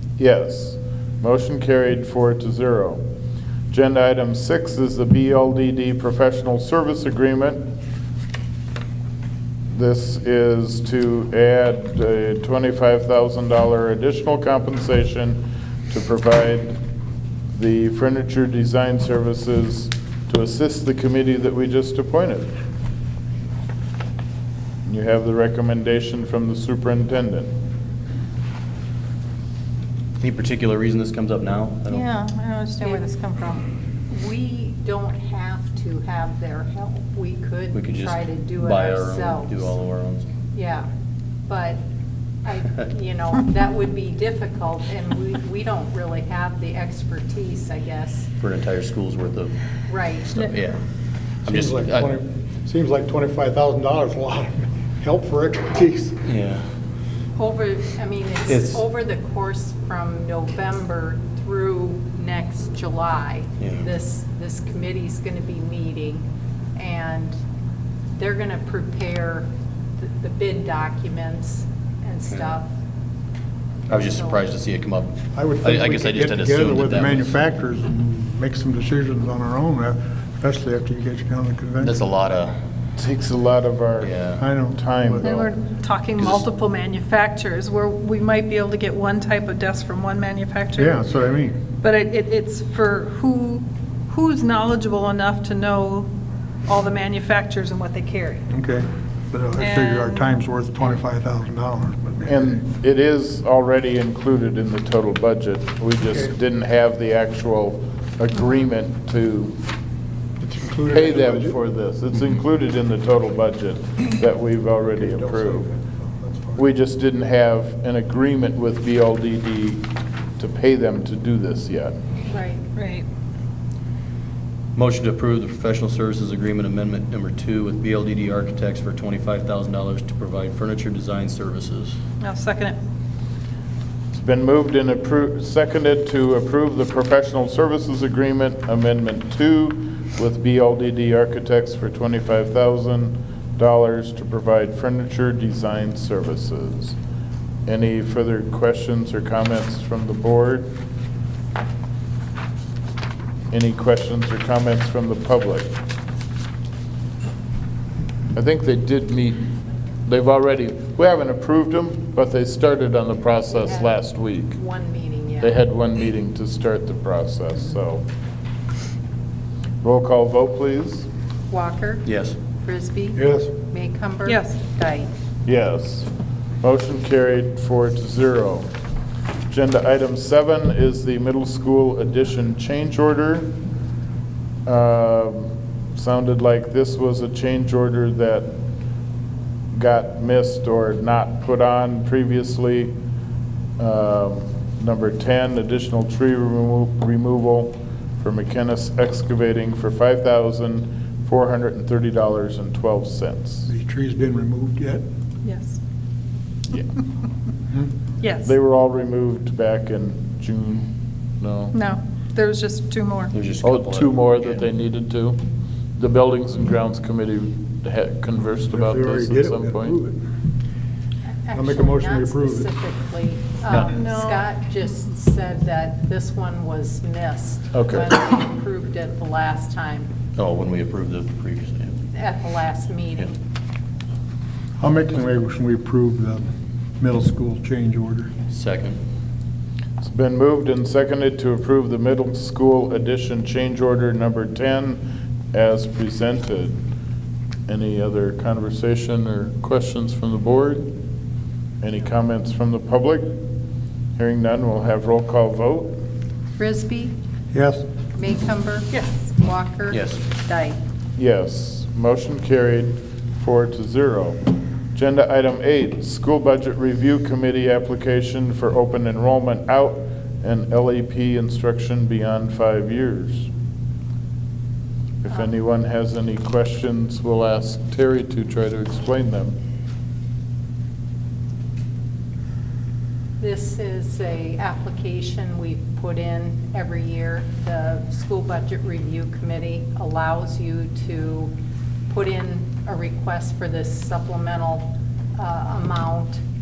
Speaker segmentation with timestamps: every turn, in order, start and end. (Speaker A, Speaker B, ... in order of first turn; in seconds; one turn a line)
Speaker A: 0.2-3.0
Speaker A: 3.7-7.7
Speaker A: 9.7-16.8
Speaker A: 17.5-22.5
Speaker A: 24.9-27.5
Speaker B: 30.2-32.1
Speaker C: 31.9-33.2
Speaker D: 32.8-39.7
Speaker B: 37.7-40.3
Speaker D: 40.5-40.9
Speaker D: 41.5-41.8
Speaker D: 42.5-48.3
Speaker B: 48.4-49.5
Speaker D: 49.9-50.5
Speaker B: 50.2-50.8
Speaker B: 51.5-52.2
Speaker E: 51.5-56.2
Speaker B: 56.2-56.6
Speaker D: 57.4-67.4
Speaker B: 58.5-58.8
Speaker B: 63.6-63.9
Speaker D: 68.2-69.5
Speaker D: 70.0-72.7
Speaker B: 72.3-72.6
Speaker D: 73.9-74.5
Speaker B: 73.9-77.4
Speaker E: 75.3-82.0
Speaker B: 81.8-82.6
Speaker A: 83.0-85.5
Speaker B: 84.0-84.4
Speaker E: 84.4-85.3
Speaker C: 85.2-91.1
Speaker B: 86.2-86.4
Speaker E: 90.8-91.6
Speaker C: 91.8-96.1
Speaker C: 96.7-98.4
Speaker E: 98.5-102.6
Speaker C: 99.6-100.4
Speaker A: 102.2-109.6
Speaker E: 110.4-111.6
Speaker A: 110.9-115.7
Speaker E: 115.0-116.7
Speaker A: 116.6-119.8
Speaker A: 120.4-122.0
Speaker D: 122.3-122.6
Speaker C: 122.8-123.1
Speaker B: 124.8-132.0
Speaker C: 132.2-132.8
Speaker A: 134.1-147.0
Speaker A: 147.7-150.7
Speaker A: 153.5-155.7
Speaker A: 158.3-159.5
Speaker A: 160.1-164.6
Speaker D: 163.5-164.0
Speaker D: 164.5-165.6
Speaker A: 165.4-168.0
Speaker A: 169.8-171.1
Speaker D: 171.5-175.1
Speaker B: 172.1-172.4
Speaker E: 173.2-173.5
Speaker C: 174.2-174.6
Speaker A: 175.5-176.1
Speaker A: 176.6-178.7
Speaker A: 179.5-183.6
Speaker A: 184.7-188.6
Speaker A: 189.7-192.9
Speaker A: 193.8-203.7
Speaker E: 203.7-205.0
Speaker C: 205.4-205.8
Speaker C: 208.2-208.5
Speaker A: 208.4-211.8
Speaker C: 211.7-213.3
Speaker B: 213.3-214.6
Speaker A: 213.6-215.4
Speaker A: 216.0-220.0
Speaker E: 218.7-220.2
Speaker D: 221.5-230.1
Speaker E: 221.5-222.7
Speaker C: 223.8-224.5
Speaker A: 227.7-228.1
Speaker B: 230.4-231.9
Speaker D: 232.1-233.3
Speaker E: 234.8-236.4
Speaker E: 237.0-238.3
Speaker B: 238.5-239.0
Speaker A: 240.0-246.8
Speaker A: 247.7-250.9
Speaker A: 251.8-253.4
Speaker A: 254.2-256.0
Speaker D: 256.6-257.1
Speaker E: 257.5-257.8
Speaker D: 258.1-260.8
Speaker B: 259.9-260.2
Speaker A: 261.2-264.4
Speaker A: 264.9-273.5
Speaker A: 275.2-279.6
Speaker D: 283.4-291.5
Speaker D: 292.1-296.4